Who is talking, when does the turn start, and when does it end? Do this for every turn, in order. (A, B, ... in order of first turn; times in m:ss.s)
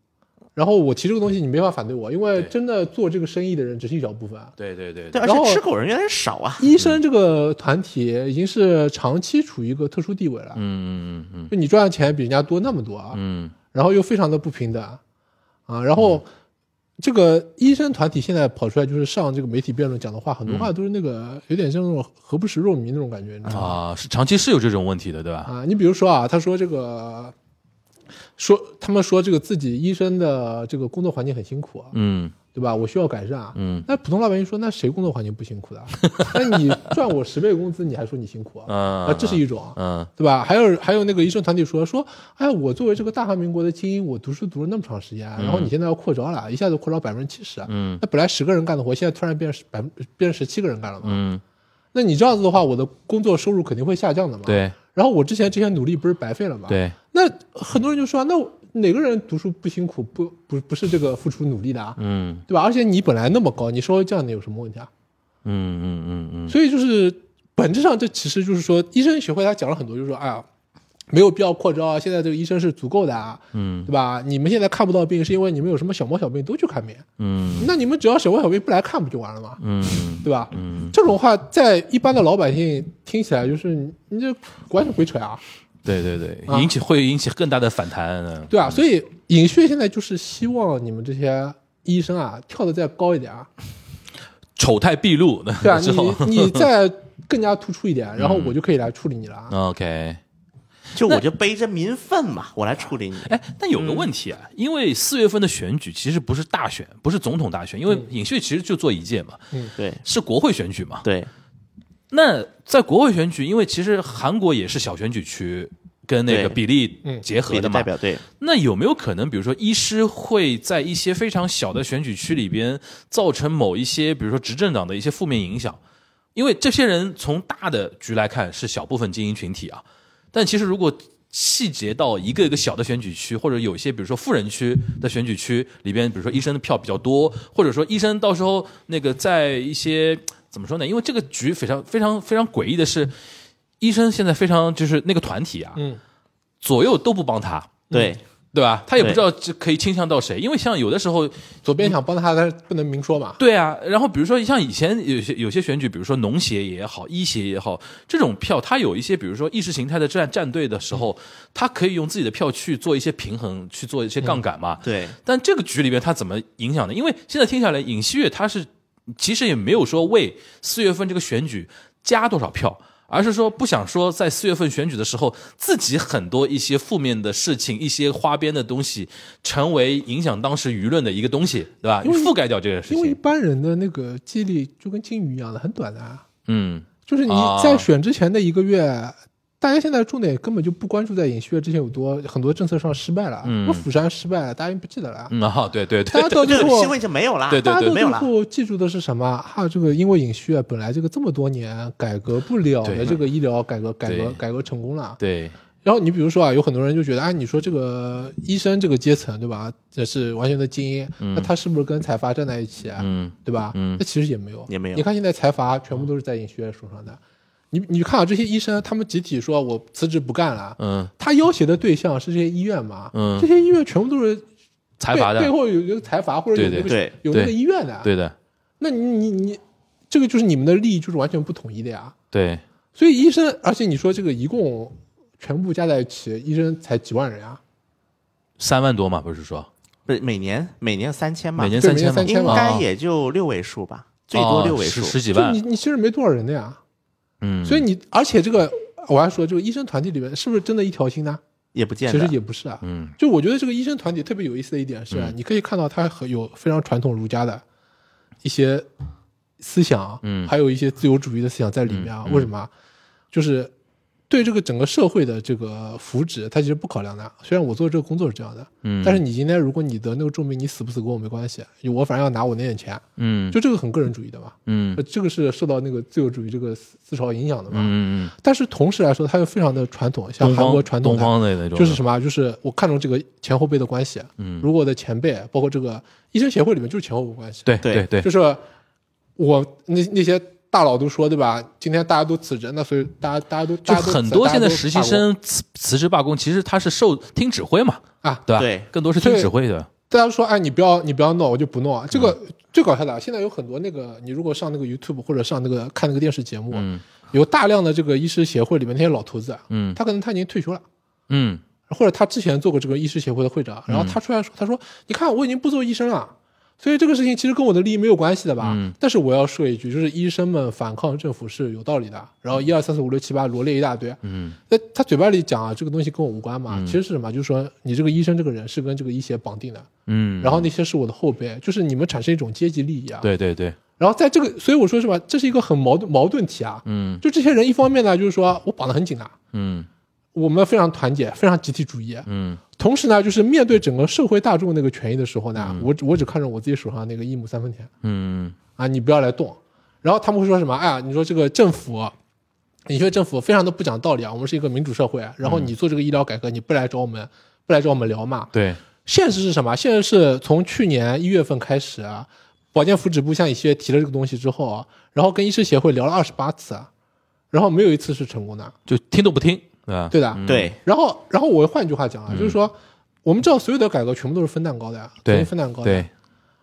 0:00.6-0:04.5 A
0:04.6-0:05.2 B
0:05.1-0:06.6 C
0:05.2-0:05.6 A
0:06.6-0:10.6 A
0:10.5-0:11.5 B
0:11.5-0:13.2 A
0:13.1-0:13.5 B
0:13.7-0:15.0 A
0:15.7-0:16.3 A
0:17.0-0:23.8 A
0:23.4-0:25.5 B
0:25.4-0:27.3 A
0:28.4-0:31.9 A
0:31.9-0:32.3 B
0:32.5-0:51.2 A
0:33.5-0:33.8 B
0:36.0-0:36.6 B
0:38.7-0:40.1 B
0:45.4-0:45.7 B
0:47.7-0:48.0 B
0:51.0-0:51.4 B
0:51.9-1:04.9 A
0:54.4-0:54.7 B
0:56.7-0:56.9 B
1:02.0-1:02.4 B
1:05.4-1:06.6 B
1:06.5-1:10.4 A
1:11.1-1:17.0 A
1:13.5-1:13.9 B
1:17.2-1:17.7 B
1:17.6-1:19.6 A
1:19.6-1:20.9 B
1:20.2-1:25.4 A
1:25.8-1:28.8 B
1:28.5-1:33.5 A
1:34.6-1:36.6 B
1:35.6-1:39.5 A
1:38.2-1:38.5 B
1:39.5-1:40.2 B
1:40.9-1:44.1 C
1:43.2-1:49.5 B
1:49.8-1:50.0 C
1:50.0-1:51.0 B
1:51.0-1:51.3 C
1:52.1-2:05.8 B
1:56.3-1:56.6 C
1:57.4-1:58.2 C
2:06.3-2:23.2 B
2:23.8-2:25.8 B
2:26.6-2:27.8 B
2:27.9-2:28.2 C
2:28.5-2:31.9 B
2:31.6-2:33.4 A
2:33.4-3:03.2 B
2:44.8-2:45.2 C
3:02.0-3:02.3 A
3:02.9-3:06.2 A
3:06.5-3:07.8 B
3:07.1-3:15.3 A
3:13.4-3:13.8 B
3:15.3-3:16.7 B
3:16.1-3:16.9 A
3:16.4-3:18.3 C
3:17.5-3:18.0 B
3:17.5-3:25.2 A
3:22.8-3:23.2 B
3:24.0-3:24.4 B
3:25.2-3:25.5 B
3:25.8-3:37.2 A
3:31.2-3:31.5 B
3:33.0-3:34.0 B
3:34.7-3:35.1 C
3:37.7-3:44.4 A
3:40.8-3:41.1 B
3:43.1-3:43.4 B
3:45.0-3:45.5 B
3:45.1-3:48.1 A
3:46.5-3:48.3 B
3:46.8-3:47.1 C
3:48.8-3:52.1 A
3:52.3-3:52.6 B
3:53.0-3:57.6 A
3:58.6-3:59.7 B
4:00.1-4:05.2 C
4:01.6-4:02.8 B
4:01.8-4:02.7 A
4:04.3-4:05.6 B
4:05.3-4:06.8 A
4:07.4-4:07.8 B
4:07.6-4:11.4 A
4:11.7-4:12.4 C
4:12.1-4:17.6 A
4:12.8-4:13.1 B
4:18.4-4:18.9 A
4:19.6-4:22.7 A
4:20.2-4:20.5 B
4:21.9-4:22.5 B
4:23.3-4:23.7 A
4:24.3-4:48.6 A
4:28.8-4:29.2 B
4:33.2-4:33.6 B
4:34.6-4:35.0 B
4:37.7-4:38.3 B
4:40.4-4:42.0 B
4:44.4-4:44.6 B
4:47.6-4:48.3 B
4:49.4-4:55.2 A
4:53.8-4:59.9 B
4:58.6-4:58.9 C
4:59.2-4:59.5 A
5:00.1-5:10.8 A
5:06.7-5:07.0 B
5:09.7-5:10.0 B
5:11.3-5:11.6 B
5:11.9-5:29.9 A
5:13.9-5:14.2 B
5:18.6-5:18.9 B
5:24.2-5:24.6 B
5:26.7-5:27.0 B
5:30.1-5:30.7 B
5:30.4-5:33.3 A
5:33.2-5:33.8 B
5:34.0-5:39.3 A
5:36.8-5:37.2 B
5:39.5-5:39.9 B
5:40.3-5:47.9 A
5:42.2-5:42.6 B
5:45.6-5:45.8 B
5:48.0-5:48.6 B
5:48.8-5:52.1 A
5:52.9-5:58.5 A
5:55.4-5:55.7 B
5:58.5-5:58.8 B
5:59.0-6:06.9 A
6:07.5-6:08.7 A
6:08.9-6:10.7 B
6:10.1-6:16.1 A
6:10.5-6:10.8 C
6:12.3-6:12.6 B
6:15.2-6:16.1 B